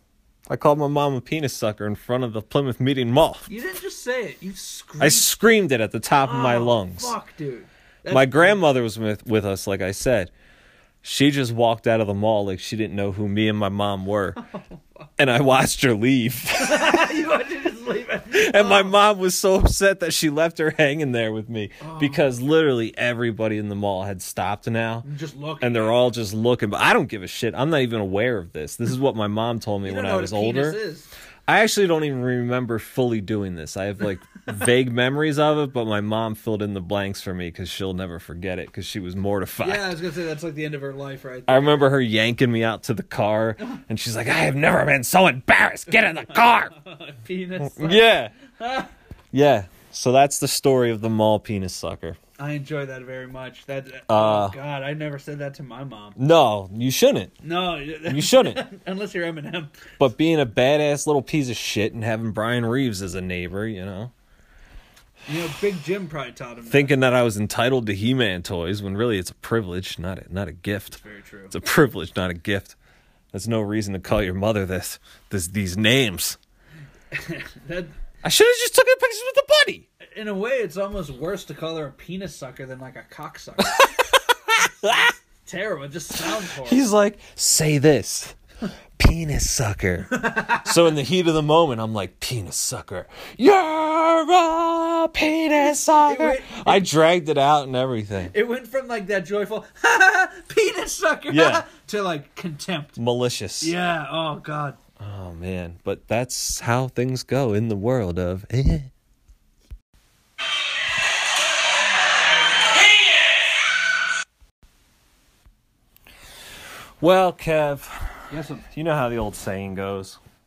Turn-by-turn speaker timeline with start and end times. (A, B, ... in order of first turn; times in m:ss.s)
0:00.5-0:03.5 A
0:03.5-0:05.3 B
0:05.0-0:07.2 A
0:06.2-0:08.6 B
0:08.1-0:10.3 A
0:11.0-0:14.4 A
0:14.4-0:15.0 B
0:15.2-0:17.2 A
0:16.6-0:19.0 B
0:18.3-0:25.1 A
0:21.8-0:22.2 B
0:25.0-0:26.1 B
0:25.6-0:30.8 A
0:29.8-0:31.1 B
0:31.4-0:39.9 A
0:39.6-0:41.9 B
0:41.5-0:46.7 A
0:45.9-0:48.9 B
0:47.6-0:48.3 A
0:49.3-0:52.2 A
0:52.4-0:56.2 B
0:54.1-0:54.6 A
0:56.2-0:57.4 A
0:57.4-1:00.0 B
0:58.0-0:58.6 A
1:00.0-1:04.1 A
1:05.2-1:07.0 B
1:06.7-1:11.0 A
1:10.9-1:11.5 B
1:11.5-1:12.8 A
1:13.3-1:16.4 A
1:17.1-1:18.0 B
1:18.2-1:19.9 A
1:20.0-1:24.0 B
1:23.7-1:25.1 A
1:25.4-1:26.8 B
1:26.3-1:28.4 A
1:29.0-1:38.3 A
1:30.1-1:30.8 B
1:35.6-1:36.8 B
1:38.2-1:43.0 B
1:41.3-1:41.6 A
1:43.0-1:43.7 A
1:43.6-1:44.8 B
1:45.0-1:48.9 A
1:57.0-2:00.2 A
1:58.3-1:58.7 B